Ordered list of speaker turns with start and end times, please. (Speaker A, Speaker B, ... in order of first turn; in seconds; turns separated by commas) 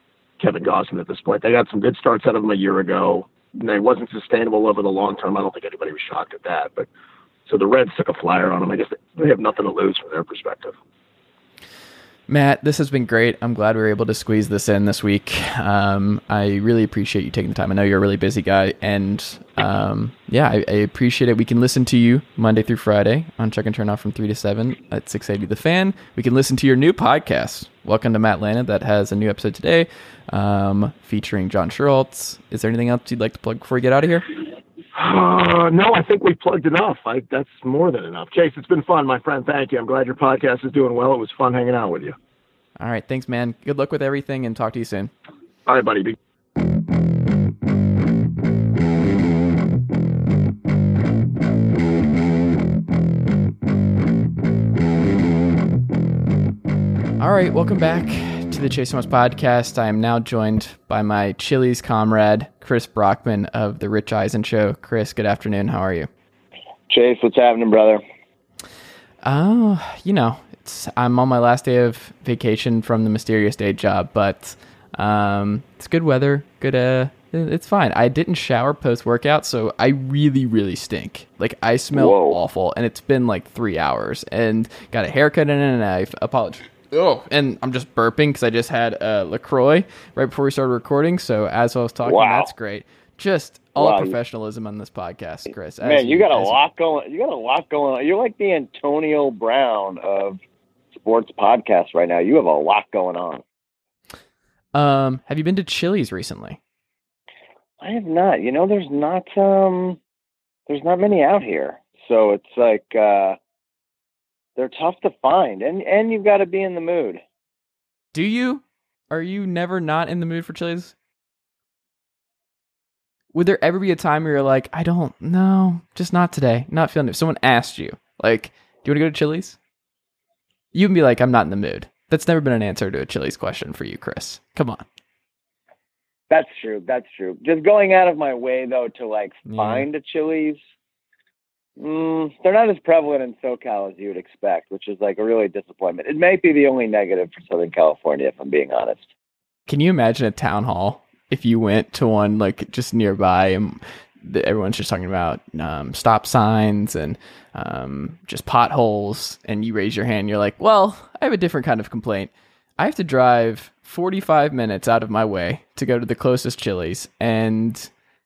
Speaker A: 0.4-6.9, Speaker A: 7.5-10.7, Speaker B: 12.3-34.3, Speaker A: 34.9-42.2, Speaker B: 42.8-45.1, Speaker A: 45.6-46.2, Speaker B: 57.2-66.1, Speaker C: 66.9-68.0, Speaker B: 69.2-96.6, Speaker C: 81.9-82.4, Speaker C: 92.0-92.5, Speaker C: 93.8-94.1, Speaker C: 95.8-100.4, Speaker C: 100.9-103.4, Speaker B: 104.7-106.6, Speaker C: 107.8-110.0, Speaker C: 110.7-113.4, Speaker C: 114.6-117.2, Speaker B: 118.1-120.9, Speaker B: 123.3-129.6, Speaker B: 130.7-134.8, Speaker C: 136.3-140.6, Speaker B: 139.4-139.9, Speaker C: 141.8-149.1, Speaker B: 149.7-167.9